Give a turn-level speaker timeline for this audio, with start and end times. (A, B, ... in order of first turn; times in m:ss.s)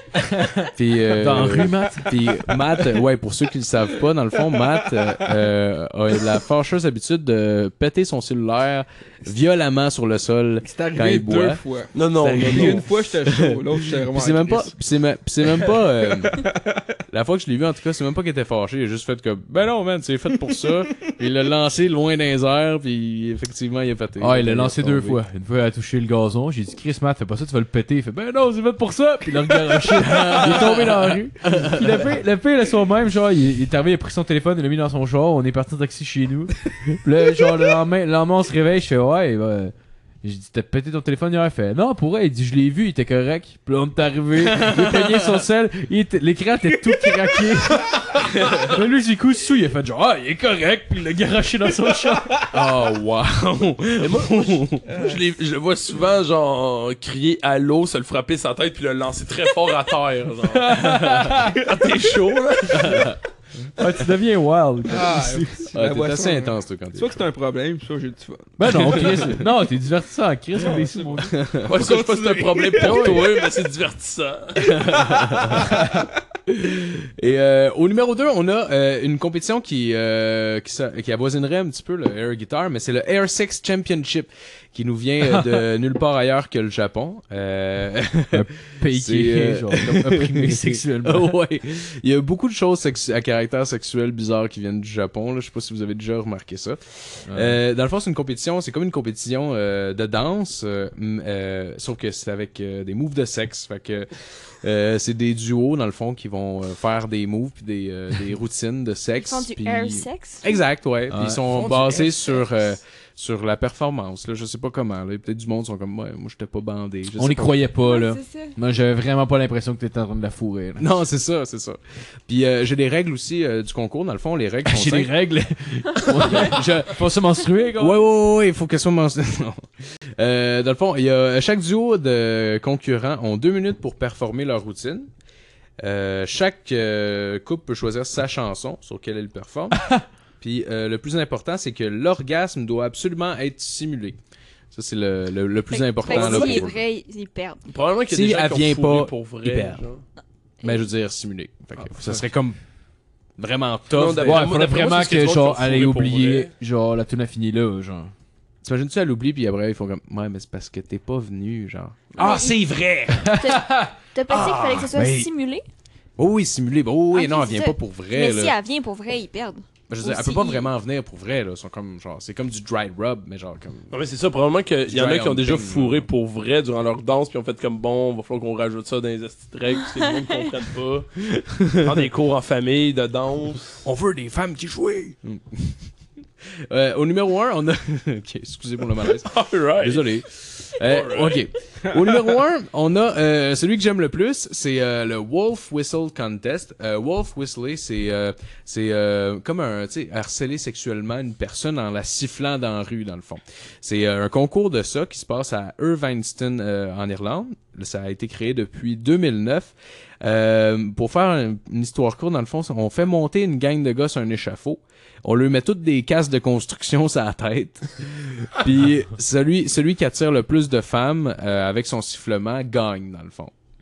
0:00.2-0:02.1 A
0:00.8-0:11.6 B
0:10.6-0:14.7 C
0:11.9-0:12.8 D
0:12.1-0:16.4 B
0:15.6-0:16.8 C
0:17.1-0:25.2 B
0:24.2-0:52.5 A
0:29.7-0:32.1 B
0:44.4-0:45.4 B
0:48.3-0:48.8 B
0:52.5-0:54.8 B
0:54.0-1:03.1 D
0:54.9-0:55.2 C
1:00.6-1:01.6 A
1:02.7-1:03.2 B
1:03.8-1:05.6 A
1:04.9-1:09.4 C
1:05.7-1:07.1 B
1:08.6-1:11.4 A
1:10.6-1:13.2 C
1:11.3-1:12.3 B
1:11.6-1:14.8 D
1:12.8-1:13.2 A
1:14.7-1:15.8 B
1:16.5-1:57.6 B
1:25.3-1:25.6 A
1:28.3-1:31.4 A
1:37.3-1:37.6 A
1:49.2-1:50.6 E
1:51.1-1:51.4 A
1:51.5-1:52.4 D
1:57.2-2:00.9 A
1:57.8-1:58.5 E
2:00.8-2:05.1 B
2:04.7-2:08.0 A
2:06.3-2:06.9 B
2:07.7-2:15.1 B
2:15.8-2:24.2 B
2:24.7-2:26.8 B
2:25.7-2:27.6 E
2:26.1-2:26.6 D
2:27.7-2:30.0 D
2:28.1-2:29.8 B
2:30.6-2:32.6 B
2:33.4-2:34.5 B
2:33.9-2:36.5 D
2:34.2-2:38.1 A
2:38.6-2:43.3 B
2:42.2-2:42.6 E
2:43.2-2:44.0 A
2:43.2-2:45.6 E
2:44.3-2:45.0 B
2:45.0-2:45.3 A
2:46.2-2:48.6 B
2:47.1-2:50.7 E
2:49.9-2:53.9 B
2:53.9-3:03.8 D
2:54.9-2:56.1 B
3:03.8-3:05.9 B
3:06.7-3:43.5 B
3:09.2-3:11.5 D